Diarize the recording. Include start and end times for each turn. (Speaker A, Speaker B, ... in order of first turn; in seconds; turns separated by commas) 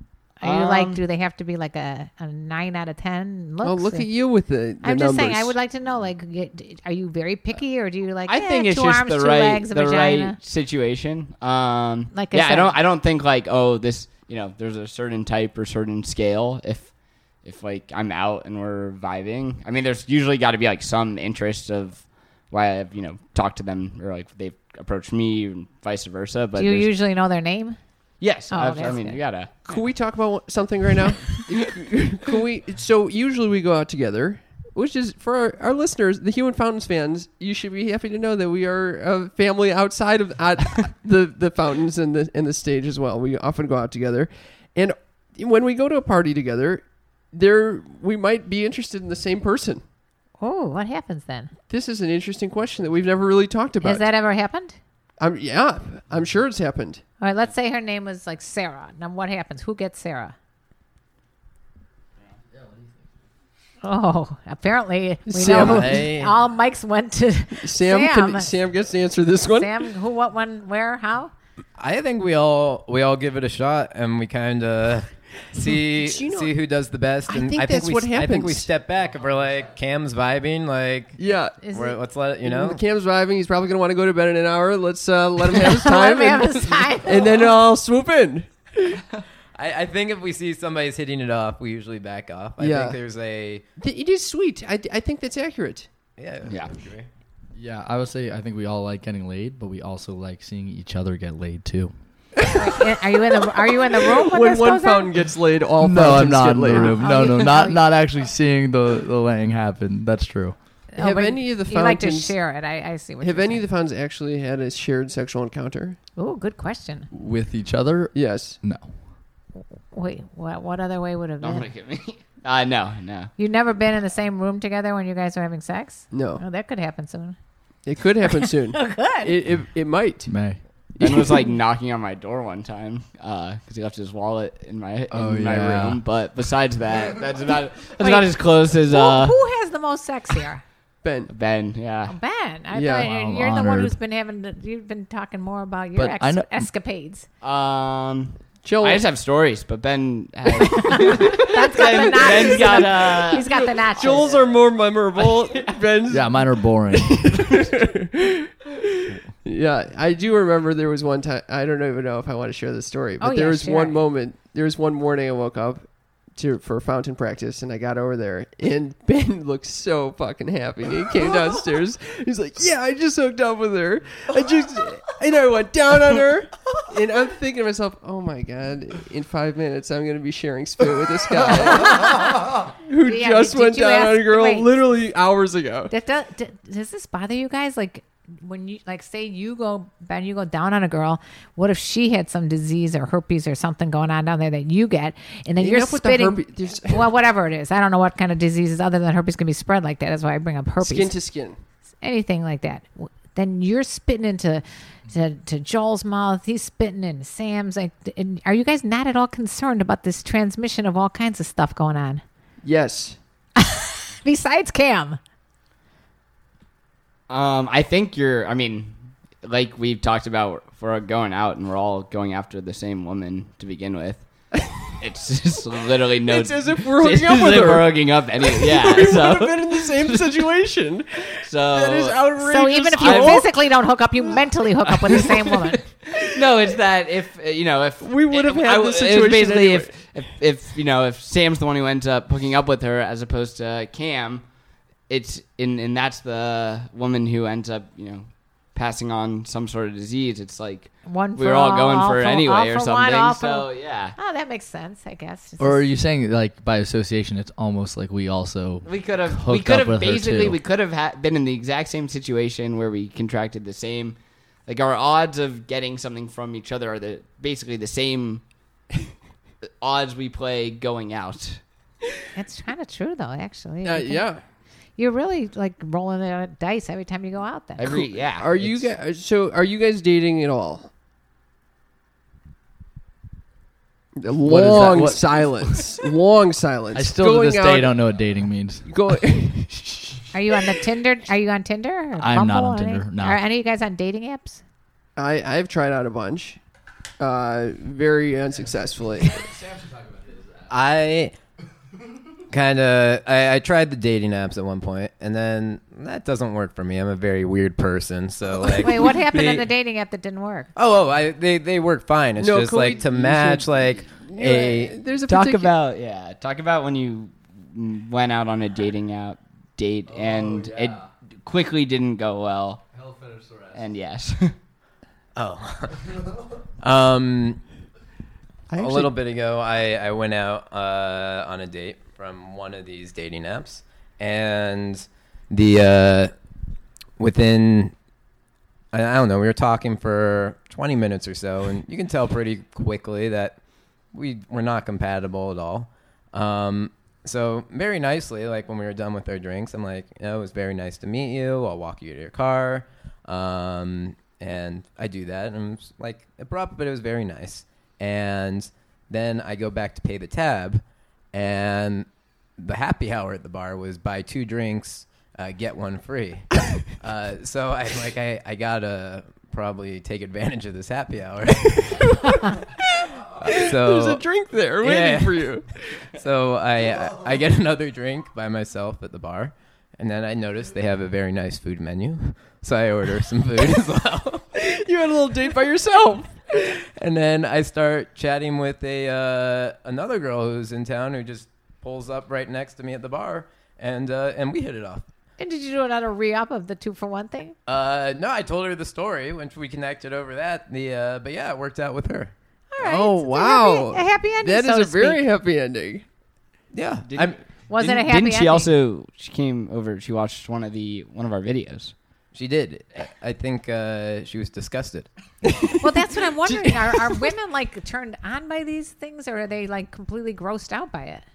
Speaker A: 0.4-4.1, Speaker B: 0.4-1.0, Speaker C: 3.6-5.5, Speaker A: 4.8-10.4, Speaker B: 8.3-26.9, Speaker A: 12.1-12.8, Speaker A: 26.6-27.8, Speaker B: 28.2-29.7, Speaker A: 28.5-29.2, Speaker C: 29.6-49.8, Speaker A: 50.4-51.5, Speaker C: 51.7-54.0, Speaker A: 53.8-54.8, Speaker C: 55.2-57.0, Speaker A: 57.2-60.3, Speaker A: 63.8-68.5, Speaker C: 65.3-66.1, Speaker D: 65.5-66.3, Speaker C: 67.6-69.7, Speaker A: 69.5-71.3, Speaker D: 71.8-82.8, Speaker C: 75.6-76.5, Speaker C: 77.3-78.7, Speaker C: 81.2-81.6, Speaker A: 81.6-82.0, Speaker C: 82.4-89.0, Speaker A: 85.6-87.2, Speaker D: 89.5-93.6, Speaker C: 92.6-93.0, Speaker C: 93.8-95.9, Speaker D: 96.2-97.1, Speaker B: 96.5-96.7, Speaker E: 97.5-101.9, Speaker C: 102.4-107.3, Speaker A: 102.5-105.1, Speaker E: 105.8-110.5, Speaker A: 106.7-107.8, Speaker A: 110.9-113.6, Speaker C: 111.0-112.4, Speaker C: 113.2-116.0, Speaker A: 116.2-117.1, Speaker E: 117.1-118.9, Speaker C: 118.1-118.6, Speaker A: 119.9-121.7, Speaker B: 121.4-123.3, Speaker A: 123.4-127.3, Speaker C: 126.1-126.4, Speaker C: 127.8-130.3, Speaker A: 128.2-129.3, Speaker E: 130.3-130.6, Speaker C: 130.9-131.5, Speaker B: 131.0-139.3, Speaker E: 135.1-136.0, Speaker A: 138.0-138.3, Speaker A: 138.9-140.6, Speaker C: 141.0-141.3, Speaker B: 141.3-142.1, Speaker A: 142.1-147.2, Speaker C: 142.7-143.1, Speaker E: 143.0-143.9, Speaker E: 145.9-146.7, Speaker B: 147.4-155.8, Speaker C: 148.6-149.0, Speaker A: 150.7-154.3, Speaker C: 151.8-185.9, Speaker E: 156.1-157.3, Speaker A: 163.2-164.0, Speaker A: 183.0-184.7, Speaker A: 185.9-201.1, Speaker C: 195.6-197.1, Speaker C: 200.8-201.6, Speaker A: 202.0-212.2, Speaker C: 212.6-213.2, Speaker A: 213.6-215.2, Speaker B: 217.3-224.2, Speaker B: 225.0-230.5, Speaker C: 226.2-233.5, Speaker B: 231.4-232.3, Speaker A: 232.4-235.8, Speaker B: 232.9-233.5, Speaker C: 235.1-235.4, Speaker B: 236.2-244.4, Speaker C: 238.0-239.9, Speaker B: 245.1-254.2, Speaker A: 251.0-255.9, Speaker E: 255.6-260.6, Speaker B: 258.8-264.1, Speaker B: 264.7-268.4, Speaker B: 269.8-271.6, Speaker A: 272.3-274.3, Speaker C: 273.8-274.4, Speaker A: 275.0-277.8, Speaker B: 277.8-278.9, Speaker C: 277.8-280.9, Speaker C: 284.2-288.1, Speaker E: 284.4-285.5, Speaker E: 286.9-288.9, Speaker C: 288.9-290.3, Speaker A: 290.3-294.6, Speaker E: 292.2-293.4, Speaker C: 295.2-296.6, Speaker C: 297.2-299.4, Speaker E: 299.7-300.4, Speaker D: 300.7-301.3, Speaker D: 302.5-309.6, Speaker A: 308.8-310.7, Speaker D: 310.7-315.0, Speaker C: 312.4-315.7, Speaker B: 315.2-322.8, Speaker E: 320.2-321.0, Speaker E: 322.9-323.8, Speaker B: 323.7-324.5, Speaker D: 325.3-326.2, Speaker D: 326.8-327.6, Speaker C: 328.7-329.1, Speaker D: 328.8-336.3, Speaker D: 337.2-337.9, Speaker D: 338.9-343.6, Speaker D: 344.1-360.8, Speaker D: 361.3-362.1, Speaker D: 362.6-372.2, Speaker C: 373.0-375.7, Speaker D: 373.4-374.2, Speaker D: 374.8-375.5, Speaker D: 376.1-384.4, Speaker C: 384.5-386.5, Speaker D: 386.6-395.0, Speaker A: 395.4-397.5, Speaker D: 397.6-402.3, Speaker A: 402.7-405.2, Speaker C: 402.8-406.0, Speaker D: 406.7-407.4, Speaker B: 407.1-411.9, Speaker A: 407.7-408.7, Speaker D: 412.3-415.1, Speaker C: 415.5-415.8, Speaker A: 415.8-421.2, Speaker C: 416.4-417.2